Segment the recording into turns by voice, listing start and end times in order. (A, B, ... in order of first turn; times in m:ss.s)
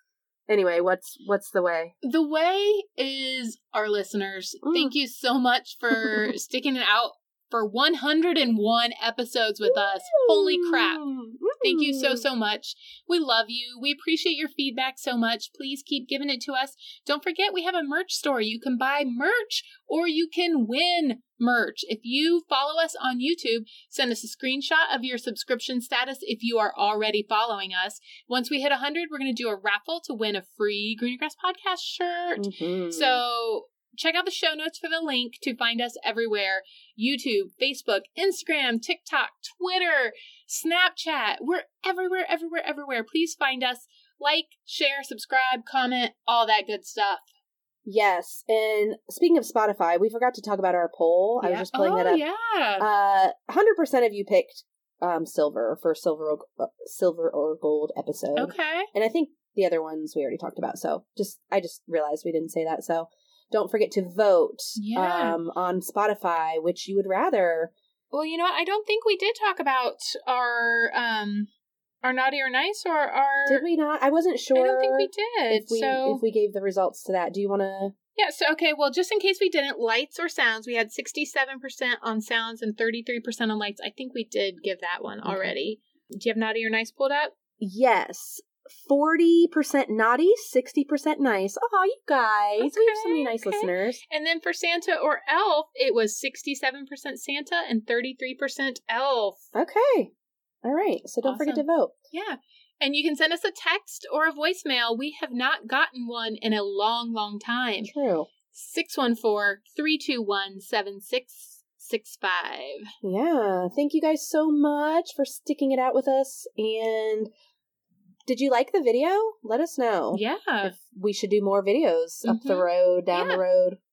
0:00.5-0:01.9 A
0:02.0-0:11.0 B
0:04.6-0:04.9 A
0:05.9-0:06.3 A
0:09.6-0:12.2 A
0:11.6-0:47.2 B
0:32.4-0:33.2 A
0:47.8-0:52.2 A
0:51.4-0:52.9 B
0:52.8-1:07.7 A
0:58.4-0:58.9 B
1:04.8-1:05.4 B
1:08.1-1:11.5 B
1:12.0-1:13.6 B
1:13.4-1:17.9 A
1:14.5-1:16.2 B
1:18.2-1:27.3 B
1:25.2-1:25.5 A
1:27.6-1:34.0 A
1:32.6-1:39.4 B
1:39.5-1:40.1 A
1:40.6-1:41.9 A
1:41.2-1:47.9 B
1:47.8-1:48.3 A
1:48.5-1:52.9 B
1:53.0-1:57.3 A
1:58.2-2:03.8 A
2:00.1-2:00.7 B
2:02.2-2:03.4 B